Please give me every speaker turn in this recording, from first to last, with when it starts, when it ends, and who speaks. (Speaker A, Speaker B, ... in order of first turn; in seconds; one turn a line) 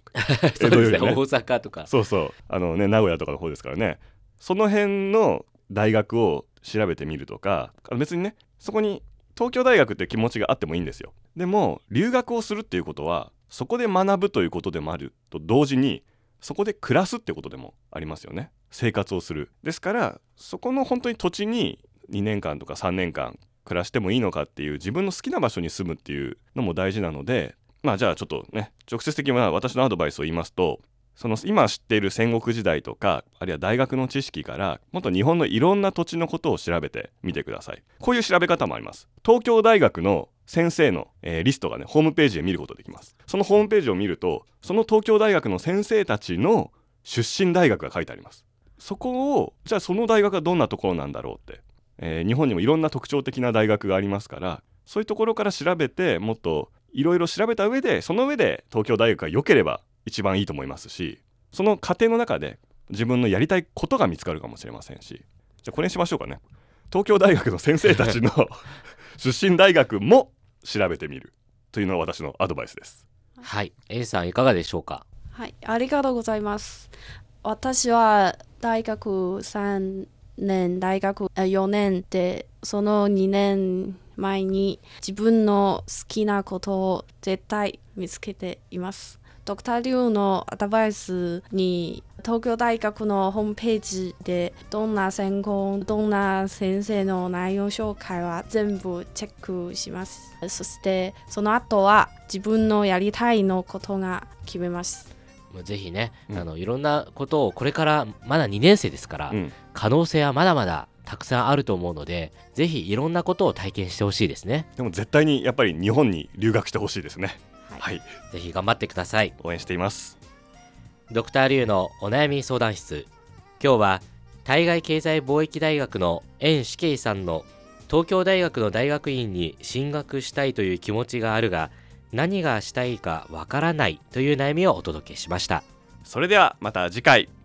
Speaker A: 0.2-1.9
Speaker B: 0.5-1.2
Speaker B: 1.9-73.0
Speaker A: 73.4-75.0
Speaker C: 75.3-105.1
Speaker A: 105.5-114.7
Speaker B: 109.3-109.5
Speaker B: 114.8-118.0
Speaker A: 118.3-119.3
Speaker B: 119.4-120.2
Speaker A: 121.1-123.1
Speaker A: 123.6-135.6
Speaker B: 136.0-137.3